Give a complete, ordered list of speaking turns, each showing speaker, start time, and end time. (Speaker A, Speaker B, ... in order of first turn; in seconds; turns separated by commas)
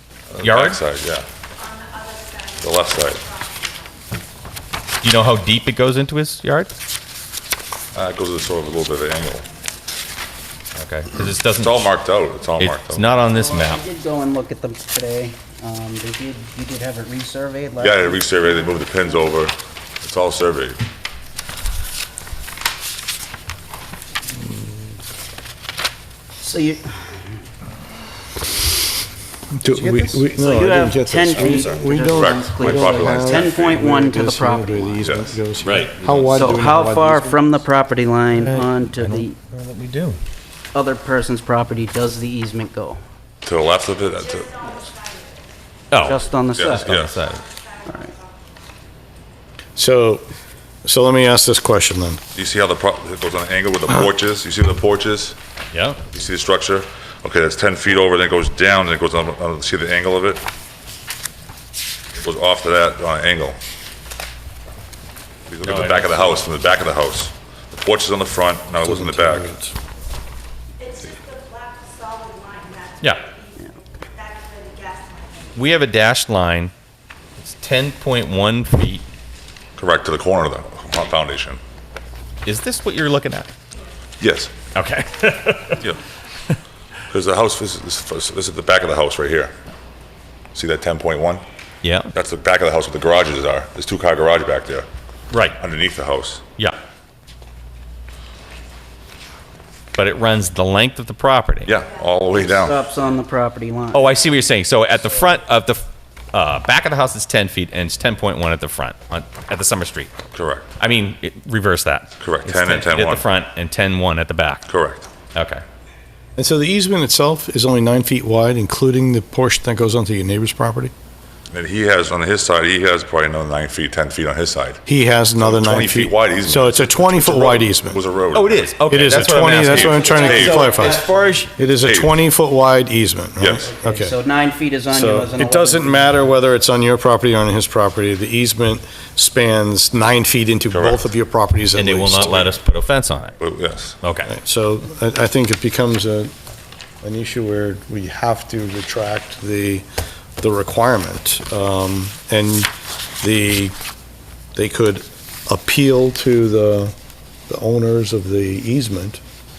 Speaker A: 0.3-1.3, Speaker B: 0.4-0.8, Speaker C: 1.6-4.0, Speaker A: 2.6-3.3, Speaker B: 5.0-6.7, Speaker A: 7.9-9.5, Speaker B: 10.8-11.8, Speaker A: 11.6-13.1, Speaker B: 12.6-13.8, Speaker D: 13.3-18.3, Speaker A: 17.8-20.8, Speaker D: 26.4-27.1, Speaker E: 29.6-37.6, Speaker B: 29.8-30.3, Speaker D: 30.4-35.3, Speaker A: 31.4-33.9, Speaker A: 35.0-35.3, Speaker B: 35.6-35.9, Speaker D: 36.3-39.4, Speaker B: 38.3-40.2, Speaker D: 40.7-43.0, Speaker A: 43.5-44.8, Speaker C: 44.1-48.6, Speaker B: 45.9-46.2, Speaker D: 46.1-47.0, Speaker A: 46.5-47.2, Speaker B: 46.8-47.4, Speaker D: 47.9-48.1, Speaker E: 49.8-50.3, Speaker E: 50.8-52.2, Speaker A: 52.4-55.4, Speaker B: 55.7-56.0, Speaker A: 56.1-60.4, Speaker A: 62.2-63.6, Speaker A: 65.5-69.5, Speaker B: 65.6-66.4, Speaker E: 68.8-69.8, Speaker C: 70.8-75.7, Speaker B: 75.5-76.7, Speaker B: 77.4-79.0, Speaker A: 79.8-81.6, Speaker B: 82.5-83.5, Speaker A: 84.2-84.5, Speaker B: 84.7-85.8, Speaker A: 87.1-89.5, Speaker A: 90.5-91.4, Speaker B: 91.8-92.1, Speaker A: 92.1-94.9, Speaker B: 95.3-95.6, Speaker A: 95.6-96.4, Speaker B: 100.0-101.7, Speaker A: 101.7-102.8, Speaker D: 102.3-104.2, Speaker B: 103.9-110.2, Speaker A: 110.3-110.7, Speaker B: 110.8-114.7, Speaker A: 112.2-113.3, Speaker A: 114.7-115.1, Speaker B: 115.3-115.6, Speaker E: 116.4-120.9, Speaker A: 121.5-124.8, Speaker E: 124.9-128.0, Speaker A: 125.4-128.7, Speaker B: 128.3-131.5, Speaker E: 128.9-131.0, Speaker A: 129.6-131.1, Speaker D: 130.0-131.5, Speaker E: 131.6-134.2, Speaker A: 131.8-132.2, Speaker A: 133.4-133.7, Speaker D: 133.6-136.2, Speaker E: 134.9-142.6, Speaker A: 140.7-141.1, Speaker B: 141.8-143.4, Speaker A: 143.4-144.0, Speaker B: 144.0-144.3, Speaker E: 144.3-146.3, Speaker E: 147.0-149.8, Speaker E: 150.4-153.8, Speaker E: 154.6-156.9, Speaker E: 157.5-159.2